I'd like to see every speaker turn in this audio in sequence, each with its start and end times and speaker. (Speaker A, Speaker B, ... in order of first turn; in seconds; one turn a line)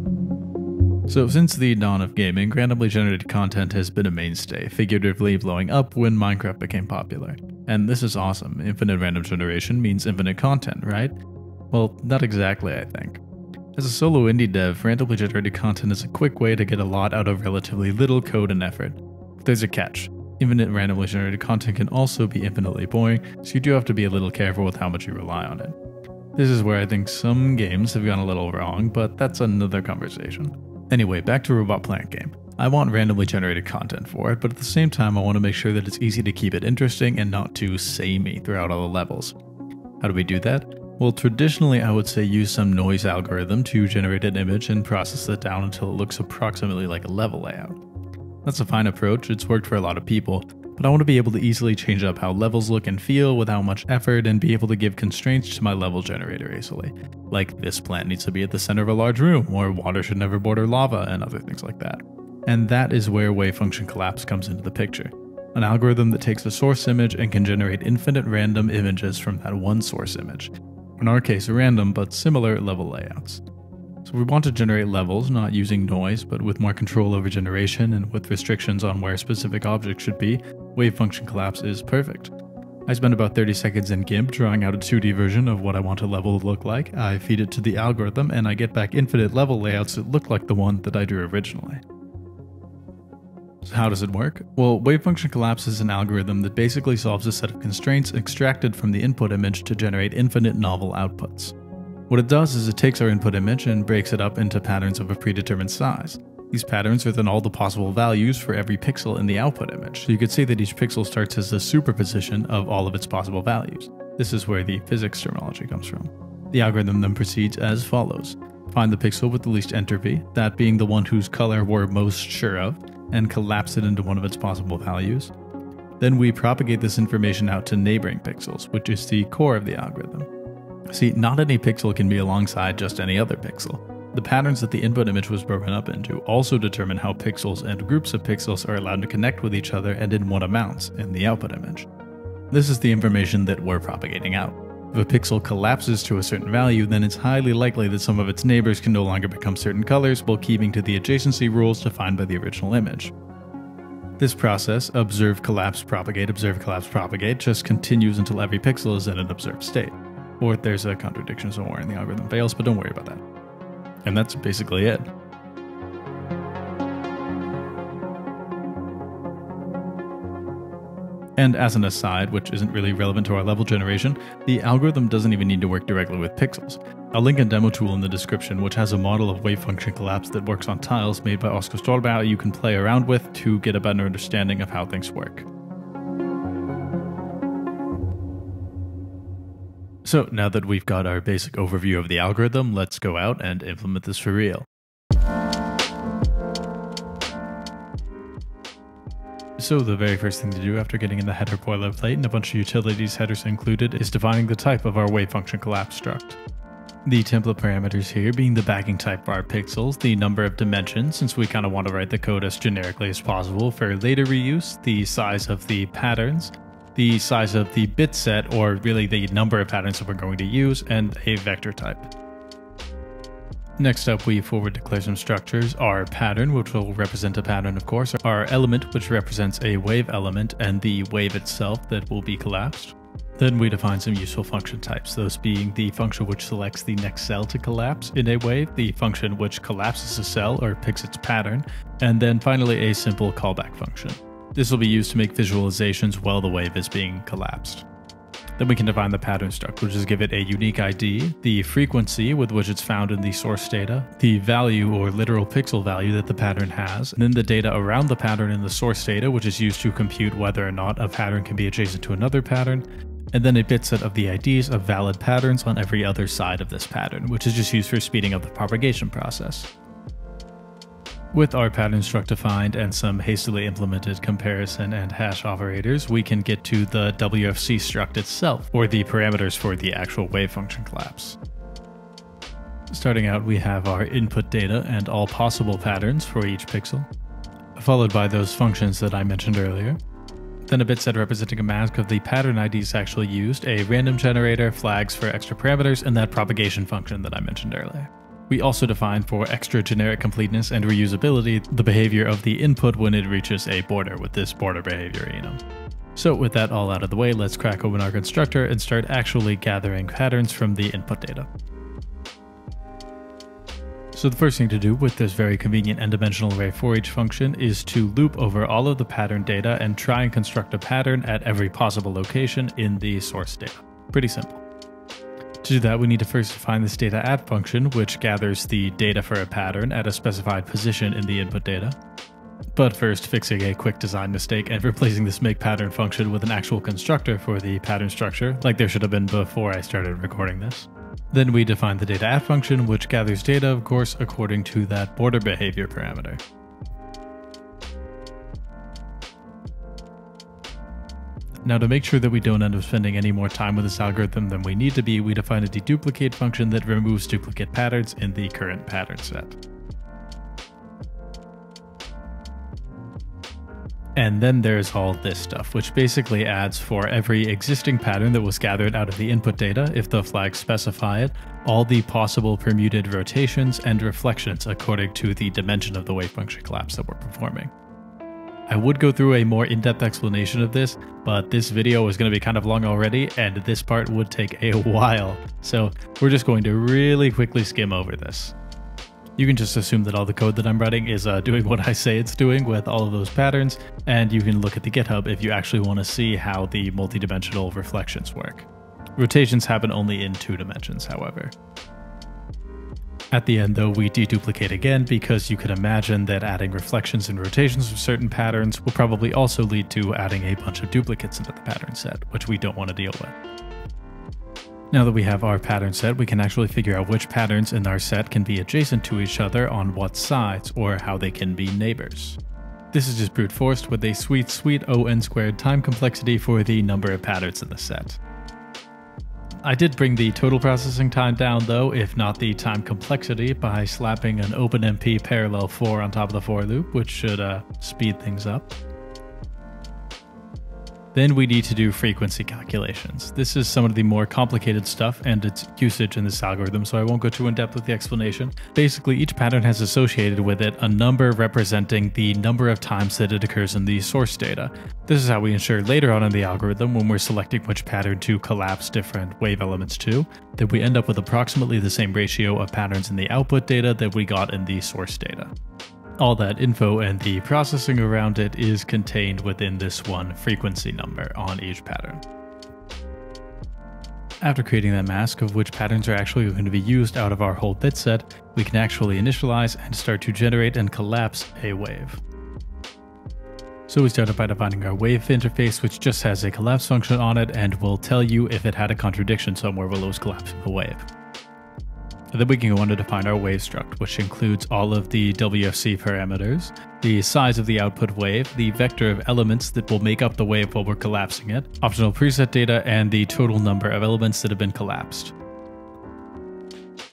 Speaker A: 1.1-11.2
Speaker A: 11.7-13.2
Speaker A: 13.8-25.8
Speaker A: 26.4-39.4
Speaker A: 40.0-47.8
Speaker A: 48.5-73.4
Speaker A: 74.0-82.3
Speaker A: 82.9-91.8
Speaker A: 93.6-101.5
Speaker A: 102.1-125.3
Speaker A: 126.0-130.3
Speaker A: 130.9-141.9
Speaker A: 142.5-153.1
Speaker A: 154.2-163.2
Speaker A: 164.0-165.1
Speaker A: 171.4-185.5
Speaker A: 190.0-194.7
Speaker A: 199.6-206.4
Speaker A: 207.1-222.1
Speaker A: 223.8-247.8
Speaker A: 248.6-269.7
Speaker A: 271.3-281.4
Speaker A: 282.9-287.1
Speaker A: 287.8-290.0
Speaker A: 290.7-305.6
Speaker A: 306.2-311.5
Speaker A: 314.1-324.6
Speaker A: 325.6-332.0
Speaker A: 332.7-346.4
Speaker A: 351.6-359.6
Speaker A: 364.2-377.7
Speaker A: 378.7-388.6
Speaker A: 389.4-401.5
Speaker A: 403.3-413.4
Speaker A: 414.9-422.4
Speaker A: 422.9-428.2
Speaker A: 429.6-438.8
Speaker A: 441.1-465.5
Speaker A: 466.2-472.2
Speaker A: 474.4-482.2
Speaker A: 483.9-491.1
Speaker A: 492.3-505.3